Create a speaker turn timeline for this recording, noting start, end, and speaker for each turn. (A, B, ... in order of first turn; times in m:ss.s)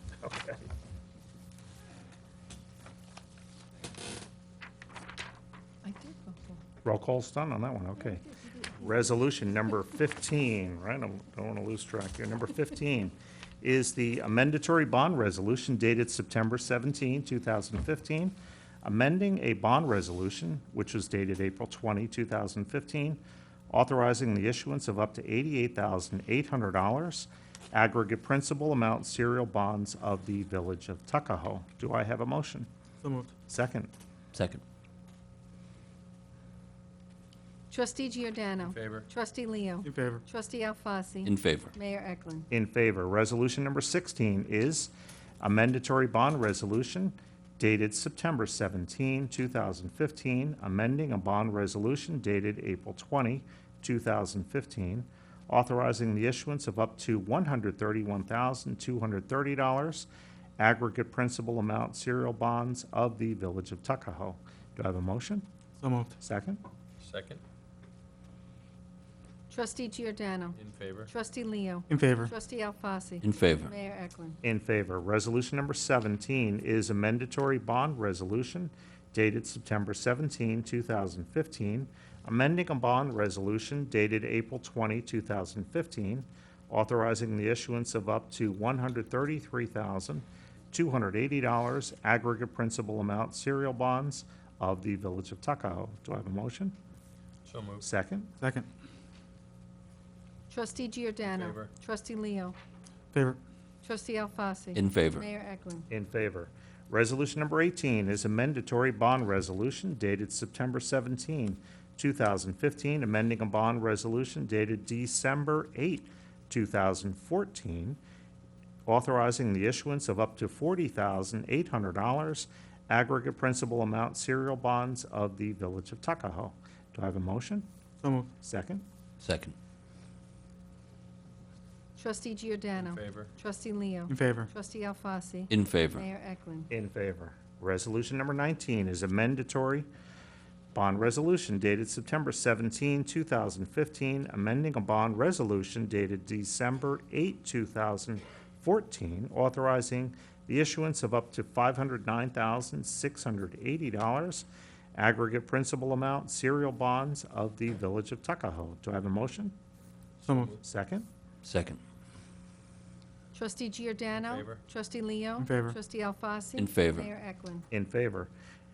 0:00.2-0:00.6 A
0:05.8-0:06.6 B
0:06.8-0:08.2 A
0:08.4-0:08.7 B
0:08.8-0:32.7 A
0:33.0-0:33.3 C
0:33.5-0:33.9 A
0:34.3-0:34.6 D
0:37.7-0:42.5 B
0:38.7-0:39.1 E
0:39.8-0:40.2 C
0:41.2-0:41.7 D
0:42.5-1:00.1 A
1:00.6-1:05.5 A
1:05.8-1:06.2 C
1:06.2-1:06.6 A
1:07.0-1:07.4 E
1:09.5-1:14.4 B
1:10.6-1:11.1 E
1:11.9-1:12.3 C
1:13.2-1:13.7 D
1:14.4-1:36.8 A
1:37.4-1:37.8 E
1:37.8-1:38.3 A
1:38.4-1:38.7 C
1:40.5-1:42.6 B
1:41.3-1:41.7 E
1:43.1-1:43.4 C
1:43.8-1:45.9 B
1:44.7-1:45.2 D
1:45.9-1:58.0 A
1:58.9-2:07.7 A
2:08.0-2:08.3 C
2:08.4-2:08.8 A
2:09.2-2:09.5 D
2:12.0-2:16.7 B
2:12.8-2:13.3 E
2:14.1-2:14.5 C
2:15.5-2:16.0 D
2:16.7-2:19.9 A
2:20.7-2:39.6 A
2:40.2-2:40.6 C
2:40.6-2:41.1 A
2:41.4-2:41.8 D
2:43.3-2:47.7 B
2:44.2-2:44.6 E
2:45.4-2:45.8 C
2:46.6-2:47.1 D
2:47.7-2:48.3 A